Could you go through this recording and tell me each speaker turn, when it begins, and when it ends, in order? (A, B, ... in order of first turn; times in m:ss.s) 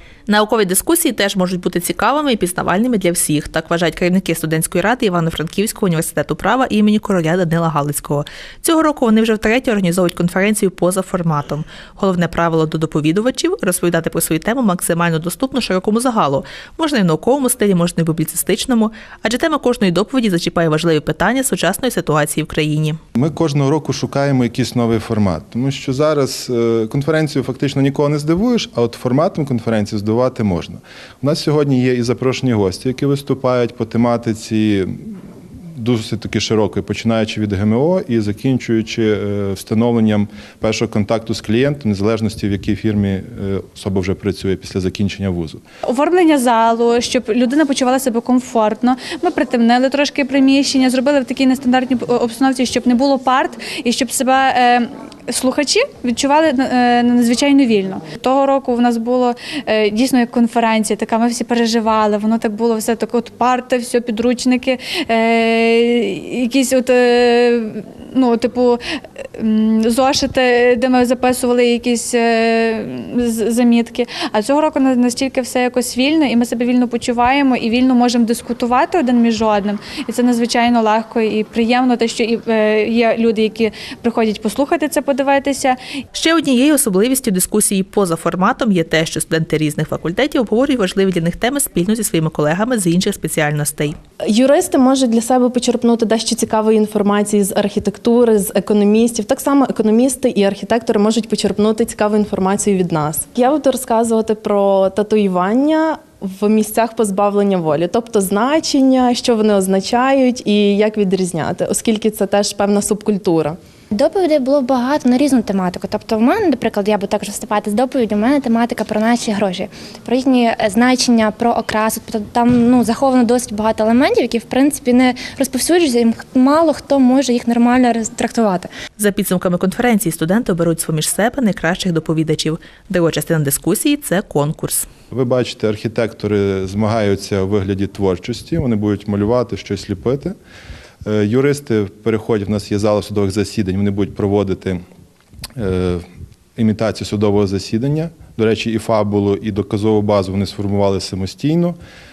0:00.3-0:23.0 A
0:23.1-0:35.1 B
0:35.8-0:45.6 B
0:45.8-1:08.8 C
1:09.4-1:25.8 C
1:26.1-1:33.9 A
1:34.2-1:53.6 D
1:53.9-2:08.7 E
2:09.0-2:14.9 A
2:15.1-2:20.4 B
2:21.0-2:24.8 B
2:25.6-2:26.0 B
2:26.6-2:31.8 B